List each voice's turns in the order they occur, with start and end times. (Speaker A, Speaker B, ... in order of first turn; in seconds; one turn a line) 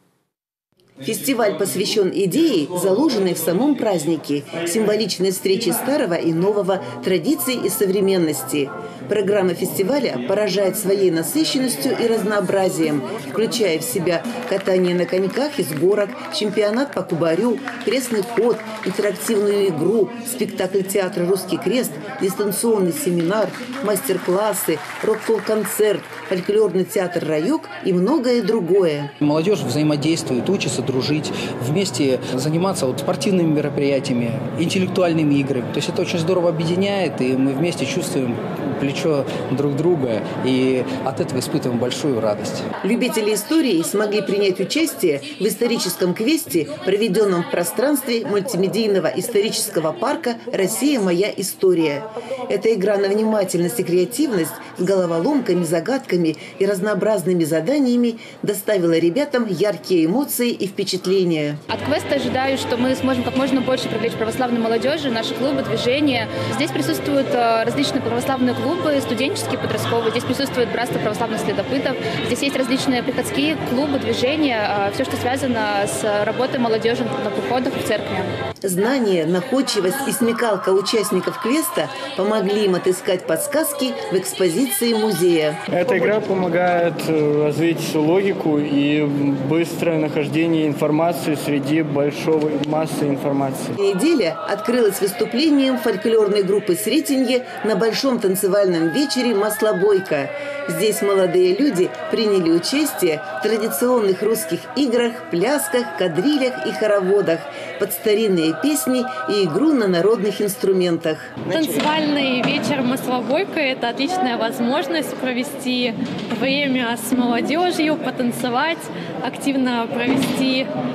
Speaker A: 1.0-29.1
Speaker B: 29.2-42.6
Speaker A: 42.8-61.6
Speaker C: 61.7-78.3
Speaker A: 78.6-85.6
Speaker D: 85.7-93.8
Speaker A: 93.8-111.4
Speaker E: 111.5-120.7